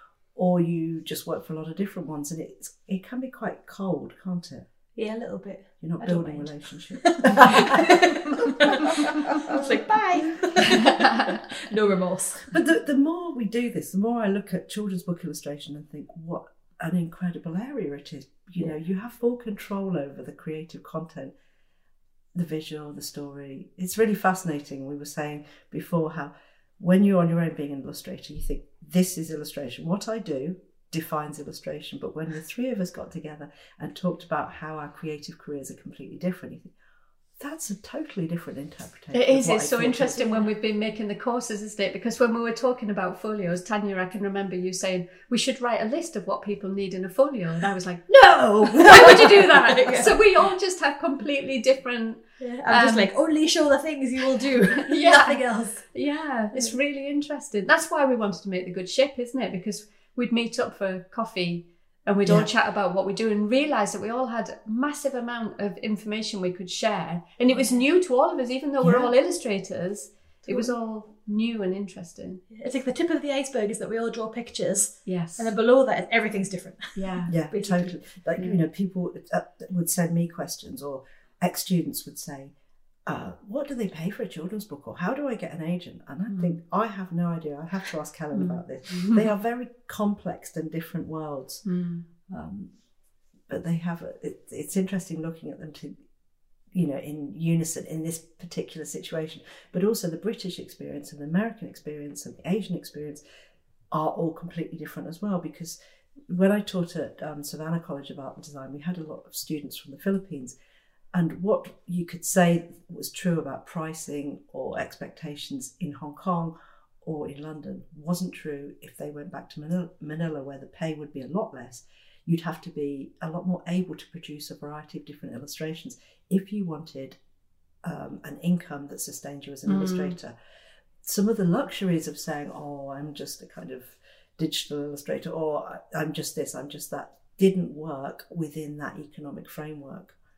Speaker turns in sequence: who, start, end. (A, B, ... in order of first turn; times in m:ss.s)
0:00.4-0:04.7 A
0:05.0-0:12.6 B
0:05.8-0:09.5 A
0:10.2-0:10.5 A
0:10.7-0:11.4 C
0:12.5-0:21.4 A
0:22.4-0:36.7 A
0:37.4-0:40.2 A
0:39.1-0:53.1 C
0:40.2-0:40.5 B
0:48.7-0:50.2 B
0:52.4-0:55.9 B
0:54.7-1:12.4 C
1:02.2-1:02.5 A
1:07.5-1:07.8 B
1:08.8-1:09.1 A
1:10.5-1:10.8 B
1:12.5-1:17.9 B
1:15.1-1:15.5 C
1:17.0-1:17.3 C
1:17.3-1:22.6 A
1:18.4-1:18.6 C
1:23.1-1:31.6 A
1:26.3-1:26.6 C
1:28.3-1:29.3 C
1:31.6-1:32.1 C
1:32.3-1:32.8 A
1:33.5-1:36.0 A
1:36.7-1:43.2 A
1:43.9-1:45.8 A
1:46.3-1:50.6 A
1:51.1-2:07.2 A
2:07.8-2:10.4 A
2:09.7-2:10.2 C
2:11.0-2:20.2 A